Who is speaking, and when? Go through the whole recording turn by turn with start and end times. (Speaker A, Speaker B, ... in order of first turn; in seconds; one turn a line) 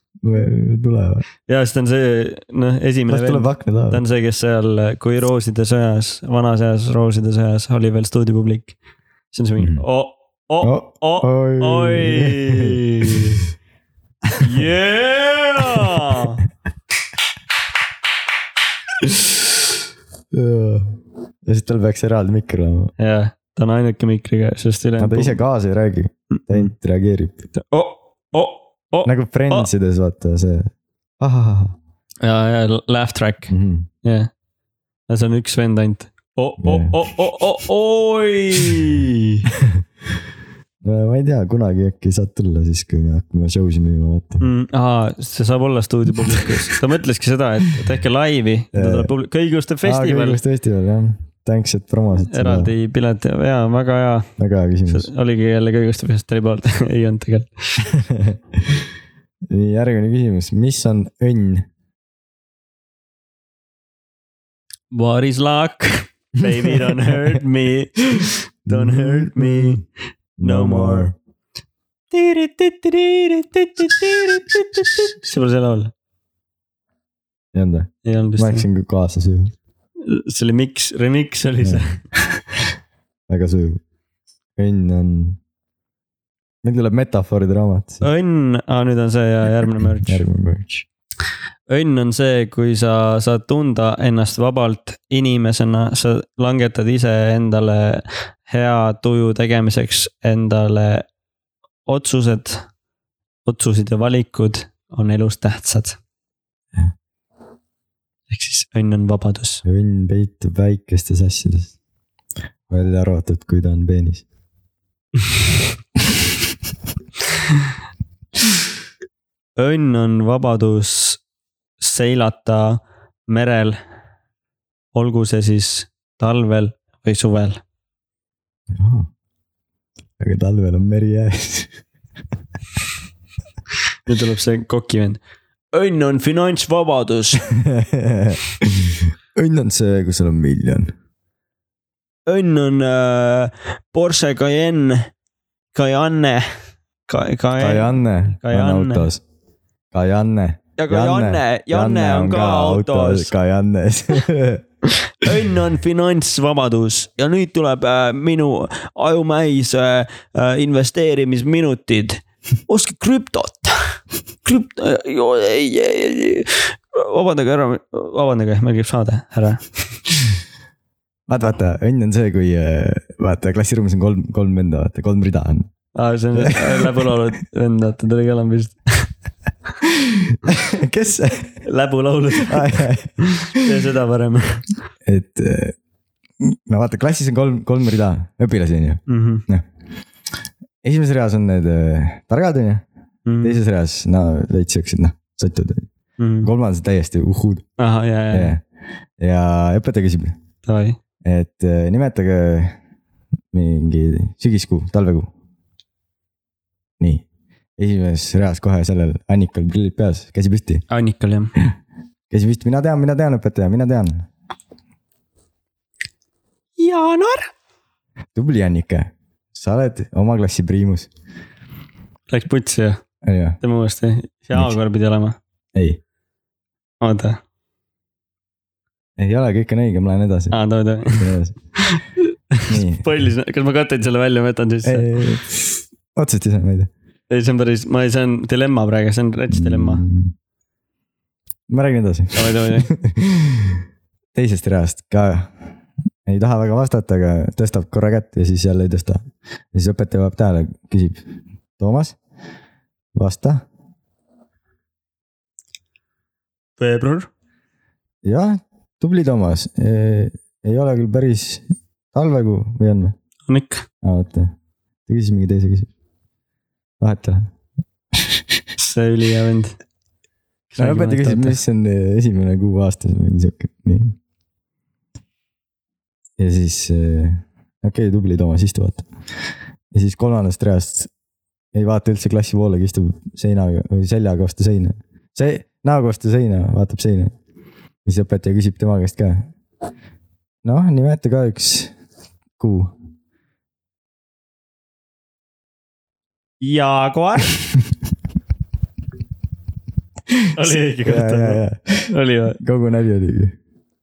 Speaker A: 0.2-1.2
Speaker B: 1.5-8.8
Speaker A: 3.1-4.0
Speaker B: 9.3-13.4
Speaker A: 9.6-9.8
Speaker A: 10.6-13.4
Speaker B: 14.4-16.4
Speaker A: 20.3-22.9
Speaker B: 23.0-25.4
Speaker A: 25.0-27.4
Speaker B: 26.3-26.7
Speaker B: 27.6-29.7
Speaker A: 29.1-31.8
Speaker B: 32.2-33.5
Speaker A: 33.5-33.9
Speaker B: 34.0-34.3
Speaker B: 35.1-39.5
Speaker A: 36.6-37.0
Speaker A: 40.8-44.5
Speaker B: 44.4-50.4
Speaker A: 48.7-49.1
Speaker A: 49.8-52.7
Speaker B: 52.2-54.3
Speaker A: 54.4-55.1
Speaker B: 54.9-57.9
Speaker A: 57.9-58.8
Speaker A: 59.5-61.7
Speaker B: 64.9-69.8
Speaker A: 68.7-69.8
Speaker A: 70.4-71.2
Speaker B: 70.4-71.1
Speaker B: 72.1-75.9
Speaker A: 77.5-79.5
Speaker B: 78.0-78.7
Speaker B: 80.0-82.0
Speaker A: 81.6-81.9
Speaker A: 83.3-83.8
Speaker A: 84.6-85.4
Speaker A: 86.6-88.0
Speaker B: 88.0-90.2
Speaker A: 90.0-90.8
Speaker B: 91.7-101.1
Speaker B: 101.9-102.7
Speaker B: 103.5-106.0
Speaker B: 108.3-109.6
Speaker A: 109.7-111.7
Speaker A: 112.7-114.2
Speaker B: 119.6-121.2
Speaker B: 121.8-123.8
Speaker B: 124.9-127.6
Speaker A: 128.7-129.1
Speaker A: 130.2-131.8
Speaker B: 134.1-135.2
Speaker B: 135.7-137.5
Speaker A: 137.6-140.9
Speaker B: 142.3-145.1
Speaker B: 145.7-146.5
Speaker B: 147.1-149.1
Speaker A: 147.6-149.2
Speaker A: 149.9-154.6
Speaker B: 150.8-153.3
Speaker B: 155.0-169.8
Speaker A: 171.3-175.7
Speaker B: 175.9-179.1
Speaker A: 176.3-177.1
Speaker A: 179.8-181.6
Speaker B: 181.7-184.7
Speaker A: 182.3-183.6
Speaker A: 185.1-185.8
Speaker A: 186.4-189.7
Speaker B: 189.1-189.4
Speaker A: 190.8-192.8
Speaker B: 193.3-193.6
Speaker A: 193.4-195.9
Speaker B: 196.2-196.5
Speaker A: 196.4-197.7
Speaker B: 197.8-198.6
Speaker A: 198.3-198.7
Speaker A: 199.2-200.3
Speaker B: 200.7-201.0
Speaker A: 201.2-202.8
Speaker A: 203.5-205.3
Speaker A: 207.8-210.8
Speaker B: 210.9-211.5
Speaker A: 212.3-214.3
Speaker B: 216.8-217.5
Speaker A: 218.3-221.1
Speaker B: 222.3-223.0
Speaker A: 223.2-223.6
Speaker B: 223.6-225.4
Speaker A: 225.8-226.0
Speaker B: 227.0-227.4
Speaker A: 229.2-230.6
Speaker B: 230.5-231.3
Speaker A: 231.1-231.6
Speaker B: 231.8-235.2
Speaker A: 232.7-233.1
Speaker A: 234.8-236.9
Speaker B: 237.3-240.0
Speaker A: 239.5-240.3
Speaker A: 241.7-243.8
Speaker B: 242.3-242.9
Speaker A: 244.3-245.7
Speaker A: 246.3-251.2
Speaker A: 251.8-252.2
Speaker A: 253.1-253.7
Speaker B: 256.8-257.3
Speaker A: 258.2-263.1
Speaker B: 263.5-263.9
Speaker A: 264.0-264.5
Speaker A: 265.1-265.9
Speaker A: 267.0-267.5
Speaker A: 268.1-268.4
Speaker B: 268.8-269.8
Speaker B: 270.7-271.6
Speaker A: 270.8-274.2
Speaker A: 276.4-279.1
Speaker A: 279.9-281.1
Speaker A: 281.7-287.4
Speaker A: 288.1-289.5
Speaker A: 290.6-291.9
Speaker A: 292.6-292.9
Speaker B: 296.6-297.6
Speaker A: 300.3-303.6
Speaker B: 300.6-302.6